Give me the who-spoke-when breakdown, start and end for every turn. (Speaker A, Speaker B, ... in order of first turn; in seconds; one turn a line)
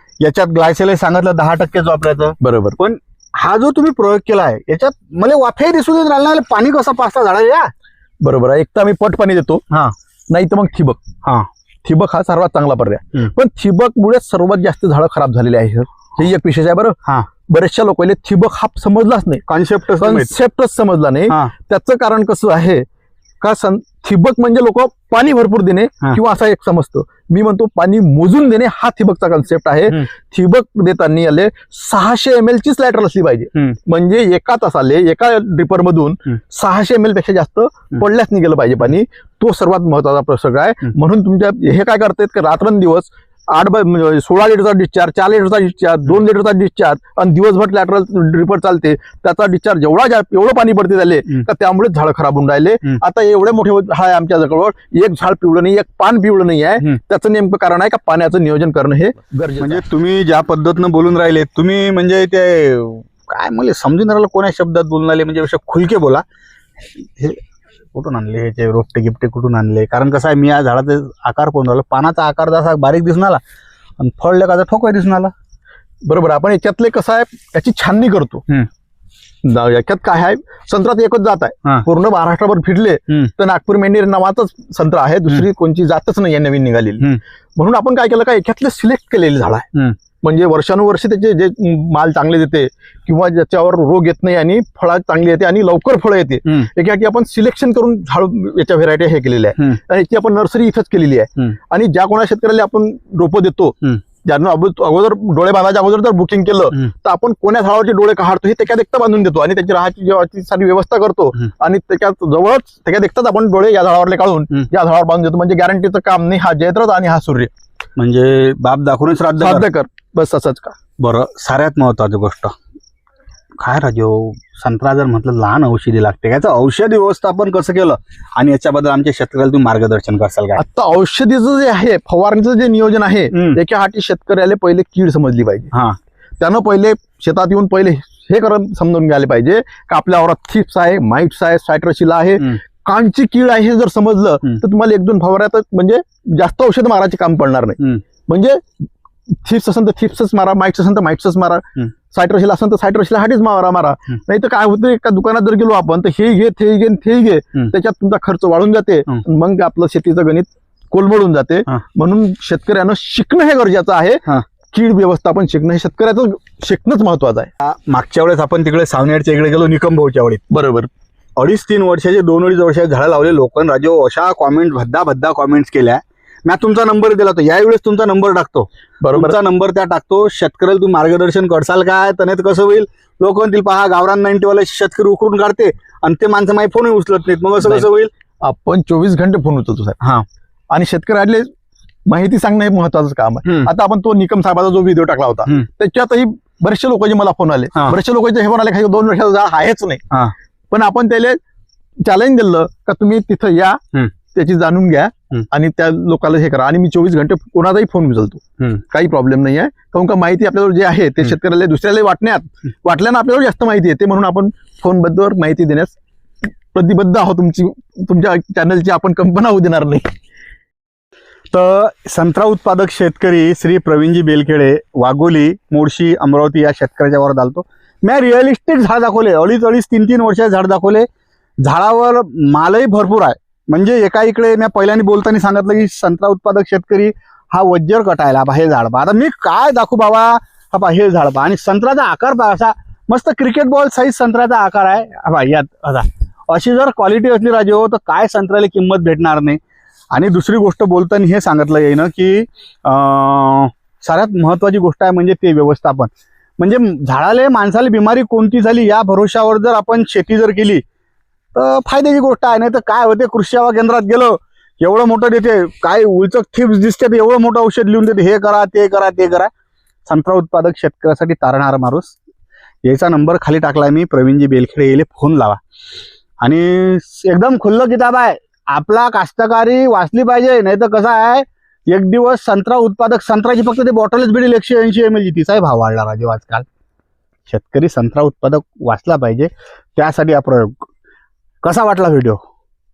Speaker A: 0.2-7.7
Speaker B: 2.4-2.8
Speaker B: 8.2-9.6
Speaker B: 10.3-11.0
Speaker B: 11.8-19.4
Speaker A: 19.5-20.3
Speaker B: 20.0-22.8
Speaker B: 23.4-59.8
Speaker A: 59.6-66.2
Speaker A: 67.0-67.4
Speaker A: 67.9-73.4
Speaker A: 74.0-75.3
Speaker B: 76.0-78.5
Speaker B: 79.4-89.7
Speaker B: 90.2-117.5
Speaker A: 118.0-119.7
Speaker B: 119.4-120.8
Speaker A: 121.0-122.5
Speaker A: 123.6-130.6
Speaker B: 130.6-135.7
Speaker A: 133.3-133.6
Speaker B: 136.4-148.7
Speaker B: 149.4-167.5
Speaker A: 167.6-170.4
Speaker B: 170.5-170.9
Speaker A: 171.4-188.1
Speaker B: 179.0-179.4
Speaker B: 187.6-187.9
Speaker B: 188.4-190.0
Speaker A: 190.0-190.2
Speaker B: 190.7-191.5
Speaker B: 192.1-200.0
Speaker B: 200.7-201.4
Speaker B: 202.1-203.8
Speaker B: 204.3-215.9
Speaker B: 216.7-220.1
Speaker A: 221.5-231.1
Speaker A: 231.6-249.6
Speaker A: 250.1-260.8
Speaker A: 261.5-269.5
Speaker A: 270.1-272.1
Speaker A: 272.8-275.6
Speaker A: 276.4-286.6
Speaker A: 287.5-290.9
Speaker A: 291.6-292.4